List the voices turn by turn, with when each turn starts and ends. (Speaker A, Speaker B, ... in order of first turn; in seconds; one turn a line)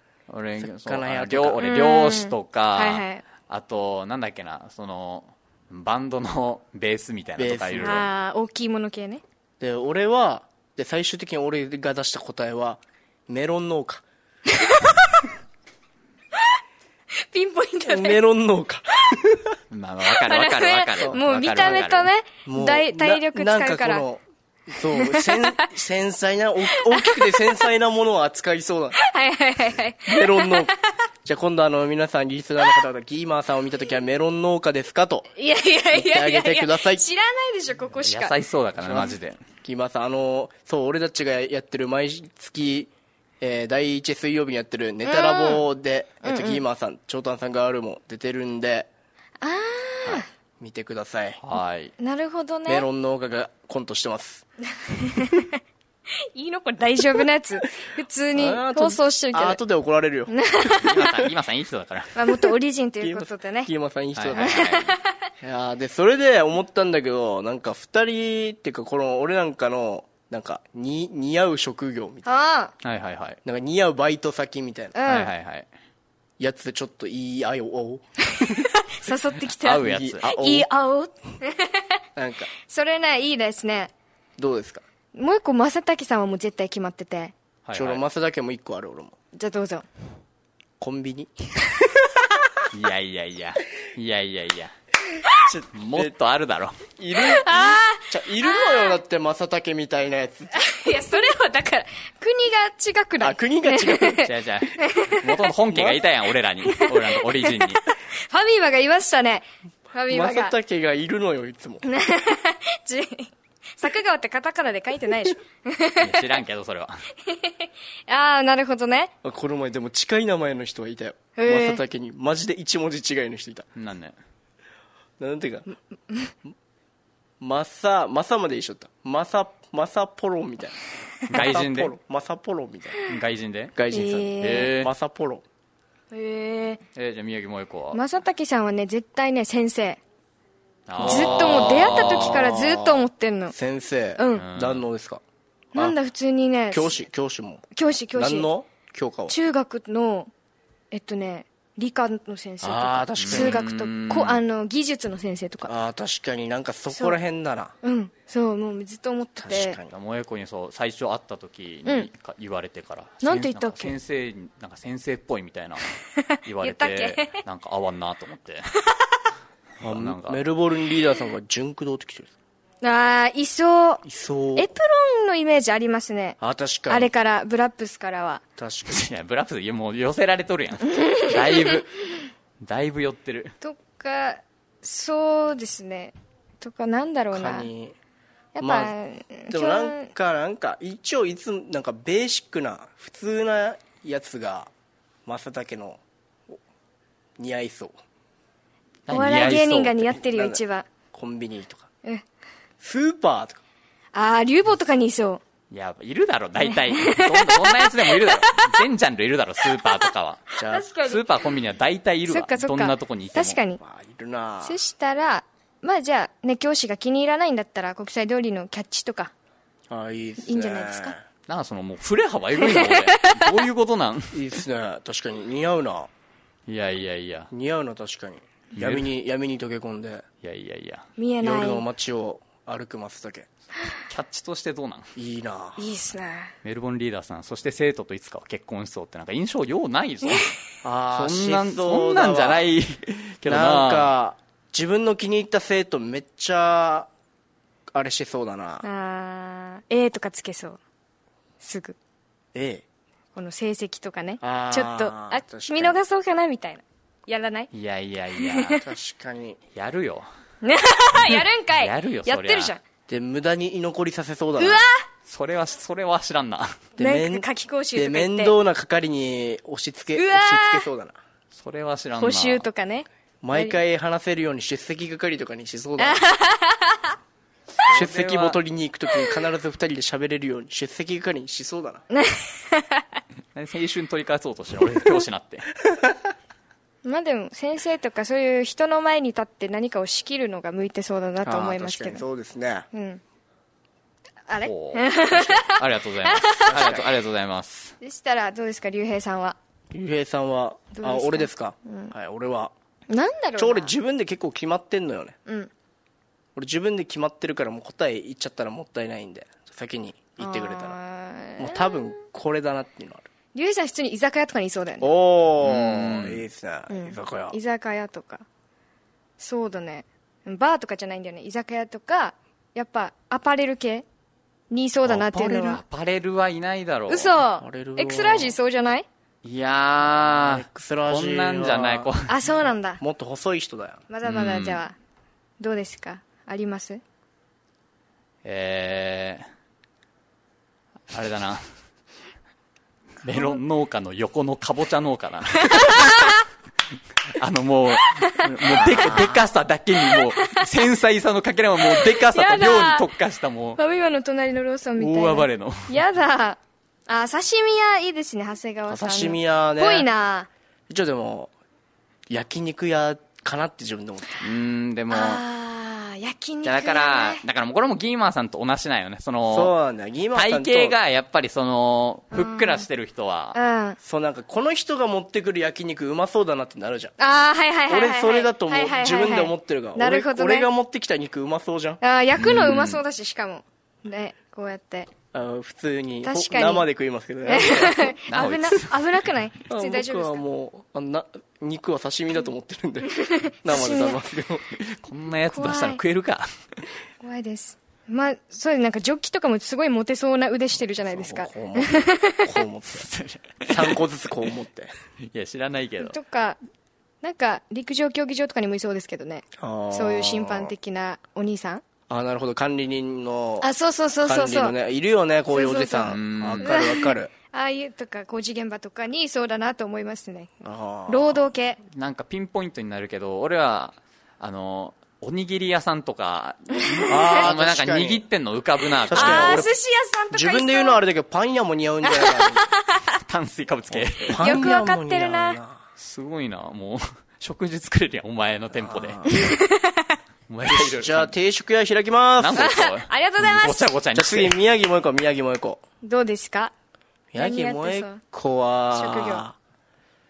Speaker A: 0.3-8.1
Speaker B: 0.6-1.6
Speaker C: 1.6-3.2
Speaker B: 7.4-8.0
Speaker C: 7.8-9.2
Speaker B: 9.6-14.0
Speaker C: 14.5-15.0
Speaker C: 17.3-18.2
Speaker B: 17.8-19.6
Speaker A: 19.7-22.1
Speaker C: 20.2-24.0
Speaker B: 21.0-21.9
Speaker B: 22.4-29.0
Speaker C: 25.0-25.6
Speaker C: 26.8-27.3
Speaker C: 29.0-30.7
Speaker B: 30.1-30.7
Speaker B: 31.2-35.3
Speaker C: 35.4-38.4
Speaker B: 35.9-37.1
Speaker A: 38.0-39.4
Speaker B: 38.8-48.9
Speaker C: 45.0-45.6
Speaker C: 46.2-46.6
Speaker C: 49.4-50.3
Speaker B: 50.6-51.4
Speaker A: 51.4-51.9
Speaker C: 52.0-52.9
Speaker B: 52.7-54.5
Speaker C: 54.9-55.5
Speaker C: 56.3-59.6
Speaker B: 58.4-61.3
Speaker C: 60.3-60.9
Speaker A: 60.8-62.1
Speaker C: 62.1-63.7
Speaker B: 63.0-64.7
Speaker A: 64.2-64.9
Speaker C: 64.3-65.0
Speaker B: 65.4-72.3
Speaker C: 72.3-72.7
Speaker A: 72.8-73.4
Speaker B: 73.5-75.0
Speaker C: 75.0-75.3
Speaker A: 75.1-75.7
Speaker B: 76.4-78.6
Speaker C: 78.4-81.8
Speaker A: 79.6-80.2
Speaker B: 79.8-80.7
Speaker B: 82.2-82.5
Speaker C: 82.6-83.9
Speaker B: 84.4-84.8
Speaker C: 85.2-87.3
Speaker A: 87.7-88.0
Speaker B: 87.7-89.2
Speaker C: 89.3-89.9
Speaker B: 90.8-91.8
Speaker A: 92.7-94.7
Speaker B: 95.5-96.1
Speaker A: 95.7-96.9
Speaker B: 97.0-100.5
Speaker C: 97.2-99.0
Speaker C: 100.5-104.3
Speaker B: 103.2-104.3
Speaker A: 104.2-107.8
Speaker C: 104.8-105.2
Speaker B: 105.7-106.0
Speaker C: 106.8-107.2
Speaker C: 108.2-110.5
Speaker B: 110.1-111.8
Speaker C: 111.9-116.2
Speaker A: 116.0-117.0
Speaker C: 117.3-119.1
Speaker B: 119.2-123.7
Speaker C: 121.4-121.8
Speaker A: 123.8-124.2
Speaker B: 125.2-125.7
Speaker B: 127.4-130.8
Speaker A: 131.3-131.9
Speaker B: 131.3-133.0
Speaker A: 133.1-133.8
Speaker B: 133.8-135.4
Speaker C: 133.9-134.7
Speaker A: 134.4-134.9
Speaker C: 136.1-136.8
Speaker A: 136.9-138.0
Speaker C: 137.9-140.0
Speaker A: 140.9-142.5
Speaker B: 141.0-145.2
Speaker C: 141.0-143.5
Speaker C: 144.2-144.4
Speaker A: 144.4-144.8
Speaker C: 145.8-147.0
Speaker B: 146.7-147.7
Speaker C: 147.8-148.5
Speaker B: 148.2-149.3
Speaker C: 149.3-150.3
Speaker C: 150.9-155.7
Speaker B: 152.6-153.6
Speaker A: 153.2-154.4
Speaker B: 155.7-157.8
Speaker C: 156.9-157.2
Speaker C: 157.8-159.8
Speaker B: 159.4-159.9
Speaker A: 159.9-165.9
Speaker C: 163.2-163.9
Speaker C: 166.2-167.4
Speaker A: 166.4-168.7
Speaker B: 169.8-172.3
Speaker A: 169.8-170.4
Speaker C: 172.8-174.0
Speaker B: 174.0-174.7
Speaker C: 174.6-176.4
Speaker B: 176.4-177.1
Speaker C: 176.9-178.4
Speaker B: 178.6-179.1
Speaker A: 178.9-182.0
Speaker C: 181.0-181.5
Speaker A: 182.6-183.6
Speaker C: 183.6-187.7
Speaker B: 187.3-188.0
Speaker C: 188.6-190.1
Speaker B: 188.6-188.9
Speaker B: 189.5-194.7
Speaker B: 195.3-196.0
Speaker B: 197.4-197.9
Speaker A: 199.1-200.1
Speaker C: 199.1-200.9
Speaker B: 199.2-200.6
Speaker B: 201.1-201.9
Speaker B: 202.8-203.6
Speaker C: 204.1-205.4
Speaker A: 205.7-210.5
Speaker C: 206.6-208.8
Speaker B: 210.6-210.9
Speaker C: 210.6-211.2
Speaker A: 211.0-213.6
Speaker C: 212.3-213.8
Speaker B: 213.8-214.8
Speaker C: 214.6-219.3
Speaker B: 219.9-221.2
Speaker C: 220.4-221.2
Speaker A: 221.5-224.5
Speaker C: 222.6-223.4
Speaker B: 224.3-226.1
Speaker A: 226.7-227.5
Speaker B: 227.5-230.2
Speaker A: 228.8-229.1
Speaker A: 230.4-231.1
Speaker C: 231.2-231.8
Speaker B: 231.4-233.5
Speaker A: 234.1-235.1
Speaker B: 235.2-235.8
Speaker C: 235.8-236.5
Speaker A: 236.6-240.5
Speaker B: 240.8-242.6
Speaker A: 241.1-244.1
Speaker B: 243.5-247.1
Speaker B: 247.9-248.8
Speaker C: 248.8-250.8
Speaker C: 251.6-252.0
Speaker B: 252.5-252.8
Speaker C: 253.3-257.7
Speaker B: 254.4-256.0
Speaker A: 257.7-258.8
Speaker C: 258.4-258.8
Speaker B: 258.7-259.6
Speaker A: 259.8-260.3
Speaker C: 260.6-262.8
Speaker A: 261.3-262.7
Speaker B: 263.1-264.8
Speaker C: 264.6-265.0
Speaker A: 265.3-266.8
Speaker B: 267.0-271.2
Speaker C: 267.0-268.6
Speaker C: 270.1-270.9
Speaker A: 271.5-272.7
Speaker C: 272.2-273.8
Speaker B: 273.4-276.2
Speaker C: 276.0-277.1
Speaker A: 277.8-278.6
Speaker B: 277.9-282.0
Speaker C: 282.1-283.1
Speaker A: 283.6-285.7
Speaker C: 287.0-292.2
Speaker B: 291.4-292.9
Speaker C: 292.9-293.2
Speaker C: 294.5-296.8
Speaker A: 294.6-298.0
Speaker B: 296.7-297.1
Speaker C: 298.0-299.6
Speaker B: 299.9-302.7
Speaker C: 300.9-302.1
Speaker C: 303.1-303.9
Speaker B: 303.6-305.4
Speaker C: 305.5-305.7
Speaker B: 306.6-311.0
Speaker C: 310.4-312.1
Speaker B: 311.6-313.3
Speaker C: 313.5-315.1
Speaker B: 315.0-317.6
Speaker A: 315.6-316.4
Speaker C: 316.9-318.4
Speaker C: 319.4-324.1
Speaker C: 324.7-325.8
Speaker A: 325.1-327.4
Speaker C: 327.1-329.1
Speaker B: 327.6-328.6
Speaker A: 329.4-332.3
Speaker B: 330.3-332.1
Speaker C: 332.3-333.0
Speaker B: 333.0-334.0
Speaker C: 334.1-334.9
Speaker A: 334.2-334.8
Speaker C: 335.6-337.0
Speaker A: 338.4-339.4
Speaker A: 341.1-341.6
Speaker A: 343.2-346.4
Speaker C: 345.6-346.4
Speaker A: 347.4-353.8
Speaker C: 348.2-348.9
Speaker B: 348.6-349.4
Speaker C: 350.4-350.6
Speaker C: 351.9-353.1
Speaker C: 353.8-360.5
Speaker A: 355.0-355.9
Speaker B: 358.9-360.1
Speaker B: 360.9-361.5
Speaker B: 362.3-364.4
Speaker A: 364.4-365.4
Speaker C: 365.1-367.4
Speaker A: 366.6-369.7
Speaker B: 369.5-371.0
Speaker A: 370.3-373.6
Speaker C: 372.3-372.9
Speaker C: 373.6-374.0
Speaker B: 374.0-377.1
Speaker C: 377.2-380.7
Speaker B: 377.9-382.0
Speaker C: 382.0-385.1
Speaker A: 382.4-383.0
Speaker B: 385.3-388.1
Speaker C: 386.2-386.9
Speaker C: 387.5-390.4
Speaker A: 388.3-389.0
Speaker B: 389.7-394.8
Speaker C: 393.2-394.2
Speaker A: 394.9-396.5
Speaker C: 395.5-396.0
Speaker C: 397.2-402.5
Speaker B: 401.1-403.1
Speaker A: 402.9-404.0
Speaker B: 403.7-404.9
Speaker A: 405.3-406.2
Speaker C: 406.0-406.6
Speaker C: 407.2-411.8
Speaker B: 409.6-410.7
Speaker B: 412.1-413.7
Speaker C: 413.6-414.8
Speaker B: 414.2-417.3
Speaker C: 415.5-420.5
Speaker A: 416.1-416.7
Speaker B: 420.6-421.5
Speaker C: 421.1-421.8
Speaker A: 421.9-429.7
Speaker C: 426.8-427.5
Speaker B: 427.1-428.2
Speaker B: 429.1-429.7
Speaker C: 429.1-431.0
Speaker B: 430.3-432.6
Speaker C: 432.1-433.0
Speaker A: 433.3-434.5
Speaker B: 433.9-435.8
Speaker C: 434.4-435.6
Speaker A: 436.0-439.2
Speaker B: 438.7-439.4
Speaker C: 439.3-440.2
Speaker A: 440.5-441.3
Speaker B: 440.6-442.8
Speaker A: 442.4-444.6
Speaker C: 442.6-443.9
Speaker B: 444.1-445.8
Speaker C: 446.0-446.7
Speaker B: 447.3-449.6
Speaker C: 447.4-448.2
Speaker C: 448.9-449.5